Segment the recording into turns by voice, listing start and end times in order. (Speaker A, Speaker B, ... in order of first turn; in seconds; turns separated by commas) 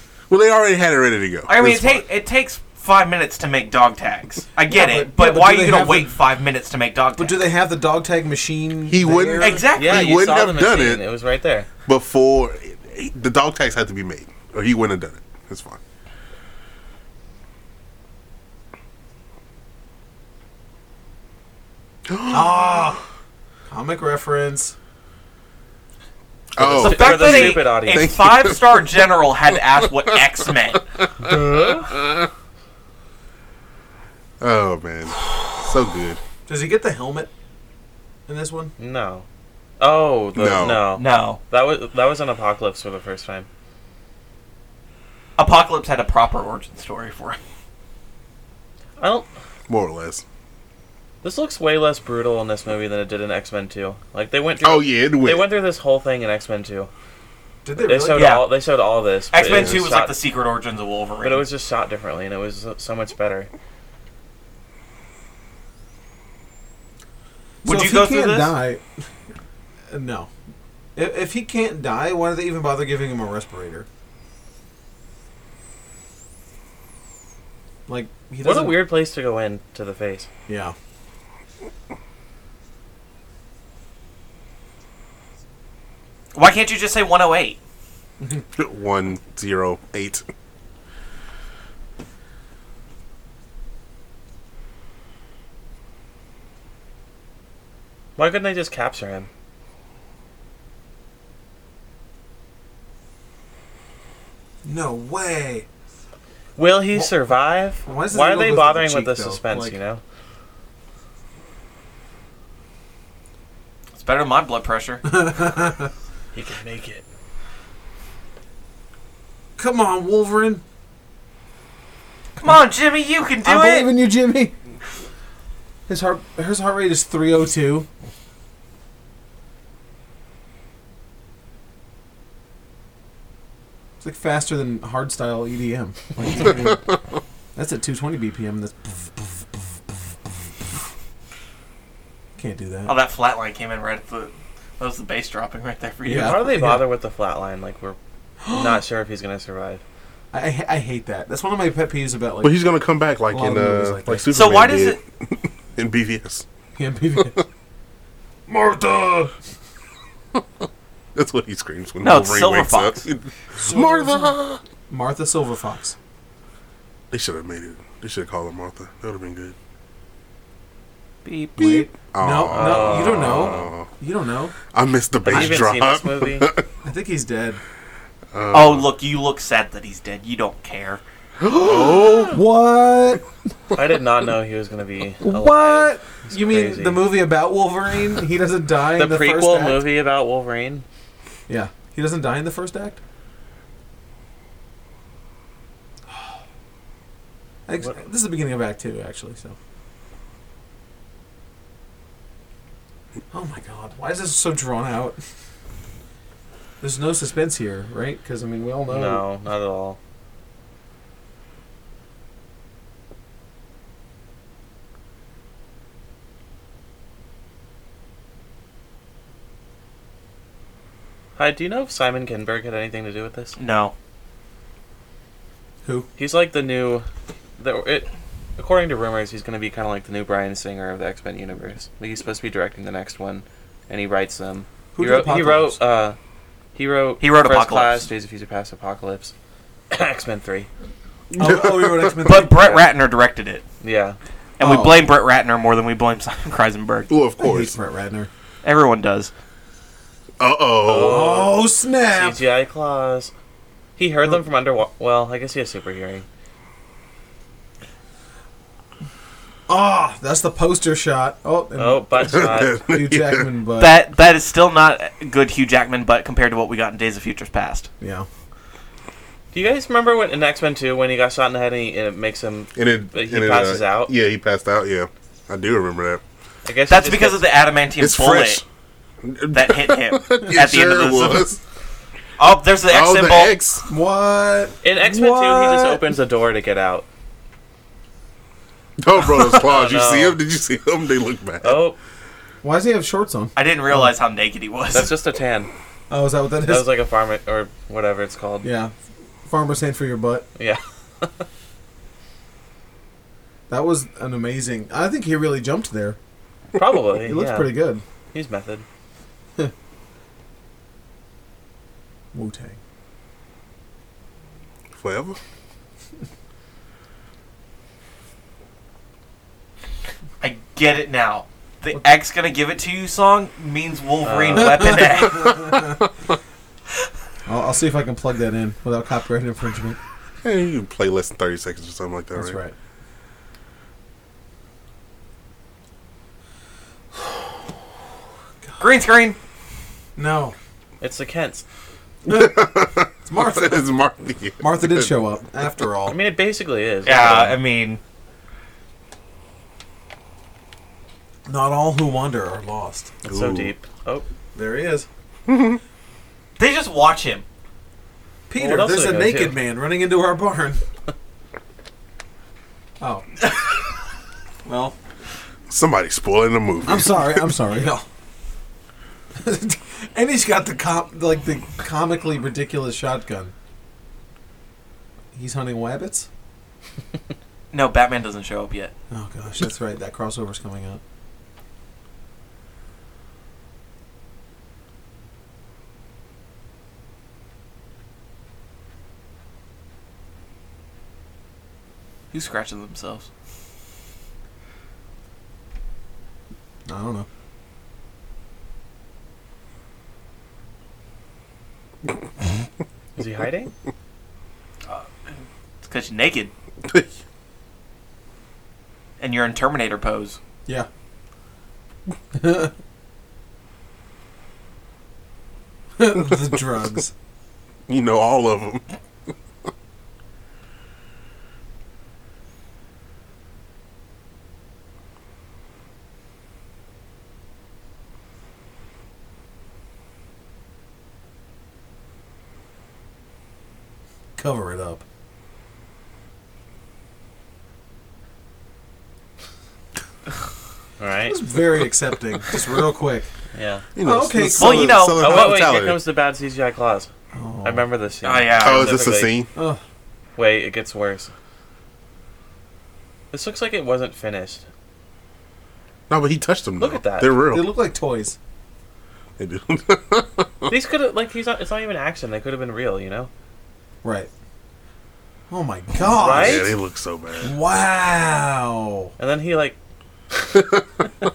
Speaker A: 0.3-2.0, Speaker B: 1.5-7.5, Speaker C: 4.7-6.2, Speaker C: 7.2-9.7, Speaker A: 8.9-11.0, Speaker B: 9.4-10.2, Speaker D: 9.8-11.7, Speaker A: 11.9-15.8, Speaker A: 22.1-23.0, Speaker C: 22.3-23.0, Speaker C: 23.7-24.8, Speaker A: 26.6-30.2, Speaker B: 26.6-30.8, Speaker D: 26.8-28.1, Speaker D: 31.2-31.9, Speaker A: 31.2-32.2, Speaker A: 34.4-36.2, Speaker C: 36.5-37.3, Speaker C: 38.3-38.7, Speaker D: 38.8-39.2, Speaker D: 39.8-43.5, Speaker A: 40.4-40.9, Speaker B: 41.0-41.4, Speaker B: 45.4-47.4, Speaker D: 49.0-49.3, Speaker A: 49.7-50.2, Speaker D: 51.2-56.9, Speaker A: 54.6-55.5, Speaker C: 57.6-58.4, Speaker D: 57.8-60.2, Speaker B: 58.1-58.5, Speaker B: 59.3-61.5, Speaker A: 59.4-59.8, Speaker D: 61.2-63.5, Speaker B: 67.6-68.5, Speaker C: 67.6-69.0, Speaker C: 69.9-70.3, Speaker C: 71.0-73.9, Speaker C: 77.9-78.8, Speaker D: 78.4-80.3, Speaker C: 80.5-80.8, Speaker B: 86.3-87.6, Speaker A: 88.6-90.2, Speaker D: 98.2-99.3, Speaker C: 104.6-105.7, Speaker D: 106.6-110.0, Speaker C: 107.8-109.8, Speaker B: 114.0-115.2, Speaker C: 115.1-115.9, Speaker D: 116.3-117.0, Speaker C: 119.6-120.6, Speaker C: 122.4-122.6, Speaker B: 122.4-123.9, Speaker C: 123.4-124.5, Speaker C: 125.9-127.9, Speaker C: 134.0-136.9, Speaker C: 137.6-140.0, Speaker C: 142.4-143.0, Speaker B: 142.9-146.4, Speaker C: 146.0-146.9, Speaker D: 146.1-148.0, Speaker C: 148.4-148.8, Speaker D: 148.5-149.8, Speaker C: 150.3-152.7, Speaker A: 152.4-156.4, Speaker C: 153.3-154.5, Speaker B: 154.3-155.0, Speaker C: 156.8-157.4, Speaker C: 158.5-159.3, Speaker A: 161.2-164.6, Speaker B: 162.0-163.0, Speaker C: 163.6-164.4, Speaker C: 164.9-166.0, Speaker A: 167.1-169.6, Speaker B: 171.2-171.8, Speaker C: 171.6-174.6, Speaker A: 171.6-173.9, Speaker D: 172.5-173.6, Speaker A: 174.7-176.7, Speaker D: 175.2-176.5, Speaker C: 175.3-175.7, Speaker C: 176.8-177.6, Speaker A: 178.3-178.9, Speaker B: 178.5-181.0, Speaker A: 181.4-182.4, Speaker C: 181.5-183.3, Speaker D: 183.7-187.1, Speaker C: 185.2-189.9, Speaker D: 188.9-190.8, Speaker C: 191.5-193.0, Speaker C: 197.7-199.6, Speaker C: 203.3-205.2, Speaker C: 206.8-209.3, Speaker D: 208.9-210.0, Speaker D: 221.4-223.6, Speaker B: 223.6-223.9, Speaker C: 225.8-226.1, Speaker D: 226.2-227.1, Speaker D: 227.6-236.2, Speaker C: 234.9-235.8, Speaker D: 236.8-239.3, Speaker B: 237.2-238.1, Speaker D: 239.9-240.7, Speaker A: 241.3-242.3, Speaker C: 241.3-242.8, Speaker B: 242.2-243.6, Speaker D: 243.8-244.2, Speaker B: 244.6-247.1, Speaker C: 244.6-245.1, Speaker A: 247.1-247.8, Speaker C: 247.4-248.3, Speaker B: 248.6-249.3, Speaker A: 250.4-251.5, Speaker D: 250.8-253.3, Speaker C: 251.0-252.4, Speaker D: 254.0-256.2, Speaker C: 259.7-264.0, Speaker D: 261.8-262.8, Speaker A: 262.3-263.5, Speaker B: 263.8-267.9, Speaker C: 268.0-268.3, Speaker D: 269.5-274.1, Speaker A: 272.8-276.2, Speaker D: 276.6-277.4, Speaker B: 276.9-278.6, Speaker A: 278.0-278.6, Speaker A: 279.2-281.6, Speaker B: 279.5-281.5, Speaker B: 282.4-283.5, Speaker A: 282.9-283.9, Speaker C: 283.9-286.1, Speaker D: 284.8-287.1, Speaker A: 289.0-291.8, Speaker D: 289.5-290.4, Speaker D: 291.6-292.0, Speaker C: 292.6-294.1, Speaker B: 293.6-295.1, Speaker D: 294.9-295.7, Speaker C: 296.1-296.9, Speaker D: 296.6-298.7, Speaker C: 298.6-300.5, Speaker D: 300.6-301.5, Speaker C: 303.7-306.2, Speaker D: 306.7-307.7, Speaker C: 307.2-308.0, Speaker D: 308.3-308.9, Speaker C: 312.3-312.8, Speaker A: 314.9-315.4, Speaker B: 320.4-325.8, Speaker D: 324.2-325.0, Speaker C: 324.6-325.9, Speaker A: 325.6-325.9, Speaker C: 327.5-330.0, Speaker A: 330.4-332.6, Speaker C: 332.4-332.7, Speaker B: 338.8-339.4, Speaker C: 340.2-340.6, Speaker D: 341.0-341.6, Speaker C: 342.3-342.7, Speaker A: 342.3-345.1, Speaker C: 343.2-343.9, Speaker C: 344.6-346.2, Speaker D: 346.1-347.6, Speaker B: 347.1-348.0, Speaker C: 351.5-353.1, Speaker D: 353.2-354.3, Speaker A: 353.3-353.7, Speaker C: 354.5-355.1, Speaker A: 355.5-355.8, Speaker B: 356.6-357.4, Speaker C: 358.5-360.8, Speaker D: 358.6-359.6, Speaker C: 363.0-363.3, Speaker C: 364.6-365.0, Speaker A: 365.7-367.5, Speaker C: 366.9-368.1, Speaker C: 369.4-373.5, Speaker C: 375.3-376.3, Speaker B: 377.7-378.9, Speaker C: 379.1-381.0, Speaker B: 392.3-393.3, Speaker C: 396.9-397.3, Speaker D: 403.2-403.7, Speaker B: 405.8-406.5, Speaker B: 409.2-410.4, Speaker C: 412.3-412.7, Speaker C: 416.0-417.1, Speaker A: 417.9-418.9, Speaker C: 434.4-435.0, Speaker D: 441.0-441.4, Speaker C: 441.3-443.3, Speaker D: 443.5-443.9, Speaker A: 444.0-446.0, Speaker C: 444.0-445.2, Speaker B: 444.6-445.5, Speaker D: 445.2-447.1, Speaker C: 447.3-447.9, Speaker D: 447.6-449.4, Speaker B: 448.2-449.1, Speaker A: 448.6-449.5, Speaker C: 449.6-449.8, Speaker D: 450.4-451.3, Speaker D: 453.3-454.6, Speaker A: 456.1-457.7, Speaker D: 456.8-457.4, Speaker C: 457.5-458.4, Speaker A: 459.4-460.7, Speaker D: 460.7-463.3, Speaker C: 464.0-464.3, Speaker C: 465.5-466.7, Speaker D: 466.0-466.7, Speaker A: 466.3-467.6, Speaker C: 467.4-469.1, Speaker D: 469.2-469.8, Speaker D: 470.4-470.6